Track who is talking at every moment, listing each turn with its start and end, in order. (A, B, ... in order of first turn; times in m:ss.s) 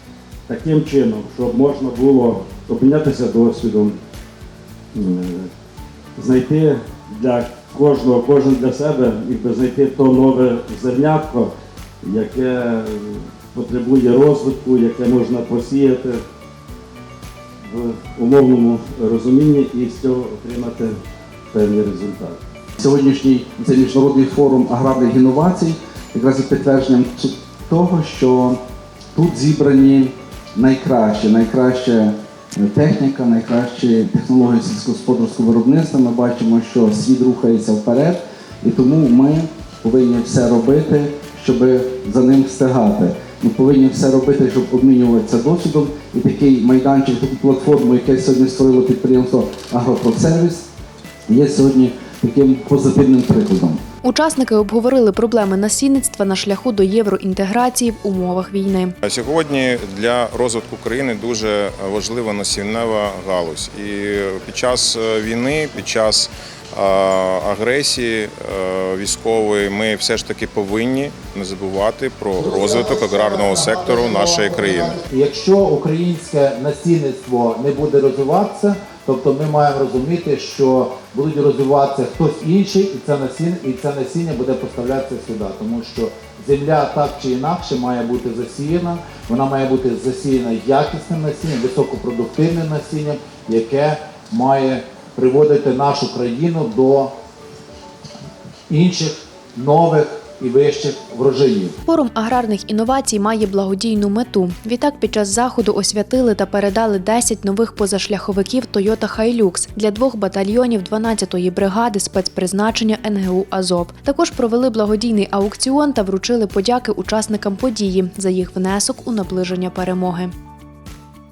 0:00.5-0:04.0 A
0:04.9-0:05.5 A
0:06.2-0:11.5 A
0:12.0-0:16.2 A
0:17.7-0:20.9 A
0:21.5-0:22.4 A
0:22.8-0:28.6 B
0:29.1-0:50.7 B
0:51.3-0:53.8 B
0:54.0-0:58.9 C
0:59.0-1:15.0 D
1:15.0-1:37.1 E
1:38.7-1:41.7 E
1:41.8-2:00.3 C